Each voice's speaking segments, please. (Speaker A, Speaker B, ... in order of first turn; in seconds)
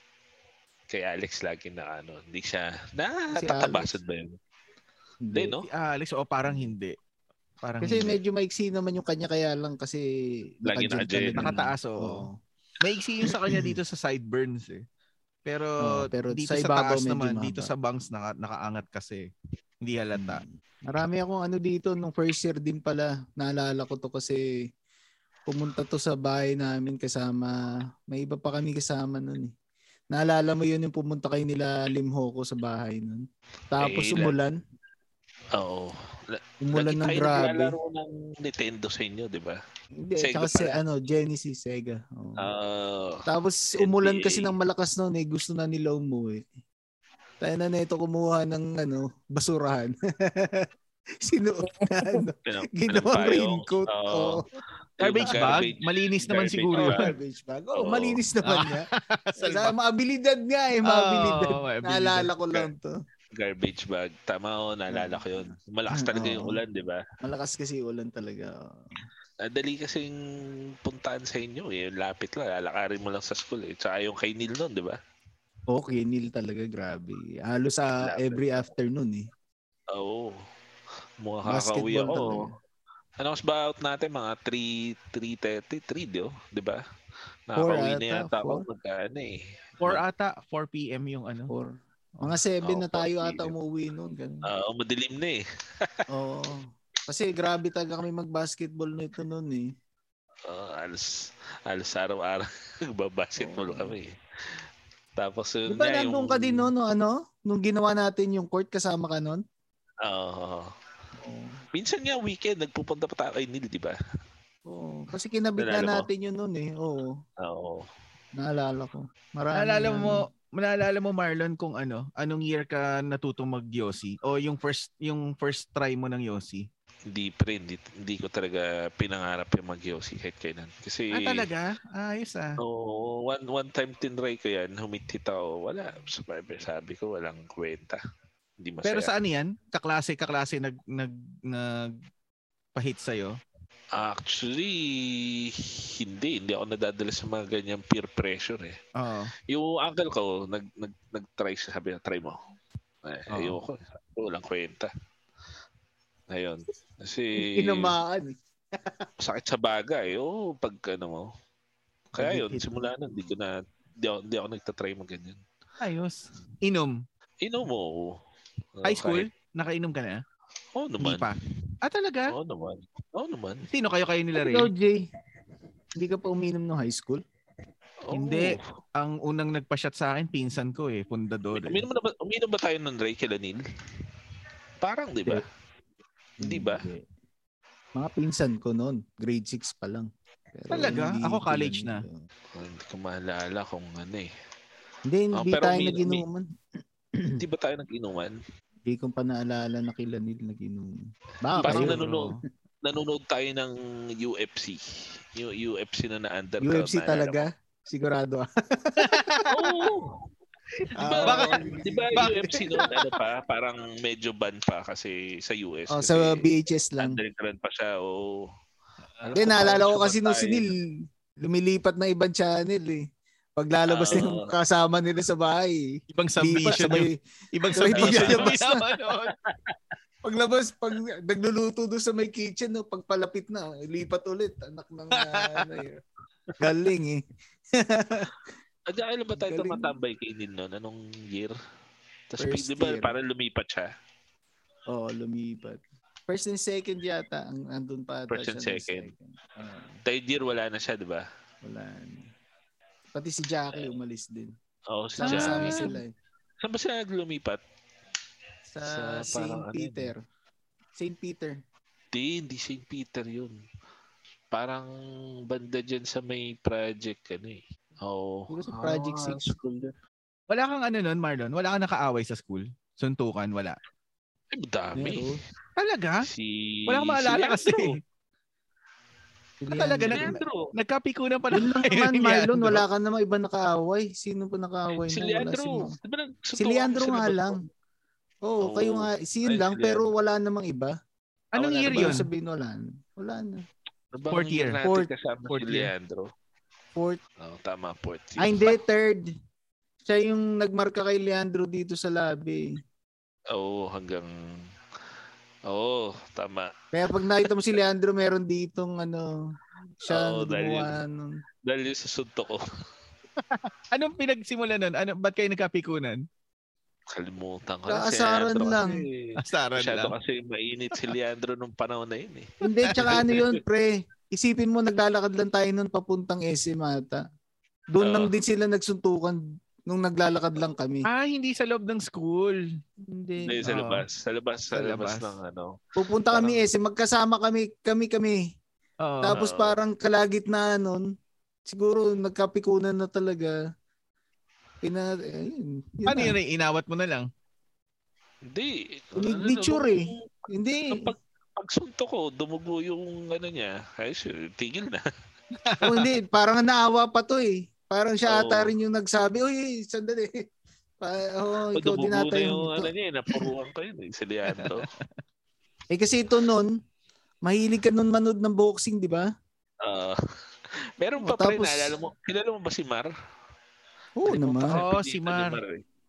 Speaker A: 0.9-4.3, 5.3-5.7, 10.7-11.6, 33.8-34.3, 35.5-39.6, 40.2-40.8, 42.4-43.2, 43.8-44.5, 52.5-54.4, 55.0-57.1, 57.7-58.2, 63.3-67.0, 69.4-70.1, 70.8-75.0, 78.0-78.6, 79.9-80.4, 81.2-82.5, 83.2-86.8, 87.5-90.0, 92.6-93.5, 94.4-96.0, 100.5-104.1, 105.2-106.7, 110.0-110.7, 111.7-114.0, 115.6-116.0, 117.4-117.9, 127.1-131.5, 132.6-138.0, 138.6-139.1, 143.9-148.8, 149.5-152.4, 153.0-154.9, 156.3-157.9, 159.2-161.3, 162.1-165.4, 167.4-168.2, 168.8-169.3, 170.7-171.3, 172.3-173.7, 178.0-178.6, 181.5-183.6, 184.8-185.4, 186.4-186.8, 192.5-194.3, 195.3-196.2, 197.4-198.3, 201.6-202.3, 202.8-204.8, 205.3-207.4, 209.5-210.2, 211.0-216.4, 217.0-218.5, 219.2-220.7, 223.9-224.5, 227.9-228.6, 229.5-229.7, 238.9-241.6, 242.3-243.9, 248.3-249.1, 250.1-251.2, 254.9-255.9, 256.6-257.6, 258.8-260.1, 262.1-263.6, 264.5-264.9, 265.5-269.9, 274.5-275.3, 276.2-278.0, 280.1-280.7, 285.1-287.6, 288.6-290.0, 291.6-292.2, 294.1-296.3, 297.4-298.8, 303.5-304.6, 305.7-306.7, 310.1-311.0, 311.6-312.6, 317.1-323.6, 328.0-328.3, 333.4-335.8, 336.3-336.6, 339.3-339.8, 348.4-355.0, 358.3-358.7, 361.7-364.9, 369.8-370.2, 371.0-373.1, 374.2-375.8
Speaker B: 3.3-4.0, 5.2-5.6, 7.8-10.0, 10.6-12.3, 15.8-17.7, 20.1-24.4, 25.5-29.5, 30.1-34.6, 36.6-37.7, 40.0-42.5, 43.2-46.4, 47.4-50.7, 51.2-54.4, 55.2-55.6, 56.7-58.9, 59.4-62.9, 64.9-66.6, 67.2-69.0, 75.7-79.3, 81.5-82.5, 87.6-88.6, 91.5-94.4, 96.1-99.7, 103.4-104.0, 105.7-109.4, 111.2-111.6, 114.7-117.2, 118.3-120.2, 157.3-158.3, 162.2-162.9, 174.3-175.1, 175.9-177.2, 186.4-187.0, 187.9-192.2, 195.1-196.5, 197.1-197.4, 198.8-202.0, 206.6-209.5, 211.0-213.0, 215.9-217.2, 219.3-223.0, 223.6-227.2, 227.7-228.9, 230.2-236.0, 236.6-237.2, 237.7-238.3, 239.4-239.9, 242.4-243.1, 244.9-250.0, 251.6-252.3, 253.1-254.5, 255.2-256.1, 258.7-260.2, 260.9-261.6, 268.5-269.5, 274.9-275.4, 279.6-280.4, 281.5-285.9, 286.6-287.6, 288.4-290.9, 291.8-293.6, 294.8-295.1, 296.9-297.2, 298.4-299.3, 300.0-302.7, 306.9-309.3, 310.0-311.4, 317.9-319.0, 322.6-327.2, 327.9-331.1, 333.0-333.6, 335.9-338.4, 339.2-341.0, 341.7-343.6, 344.8-346.4, 349.2-351.1, 355.8-360.4, 361.0-362.9, 365.9-366.7, 367.4-369.3, 371.2-371.9, 374.2-374.8
Speaker C: 5.7-7.0, 7.6-8.2, 11.4-12.3, 12.8-14.8, 15.4-19.3, 19.8-20.4, 55.0-57.0, 58.4-59.7, 60.8-62.3, 89.8-91.5, 119.5-126.7, 131.1-132.6, 138.8-141.9, 142.7-143.4, 149.0-149.3, 153.3-153.6, 165.8-167.0, 168.8-170.2, 171.0-172.3, 173.7-174.7, 178.1-181.8, 190.7-192.0, 201.6-202.4, 209.0-209.5, 211.2-212.5, 226.1-229.3, 235.1-235.7, 255.2-256.0, 270.5-273.8, 275.8-276.2, 276.9-278.0, 279.7-282.8, 291.5-292.3, 294.3-294.8, 295.5-295.9, 313.4-316.2, 319.4-320.1, 331.0-332.6, 333.6-334.0, 334.7-335.3, 339.0-339.4, 346.1-347.3, 355.6-356.1, 364.6-365.1, 374.7-375.6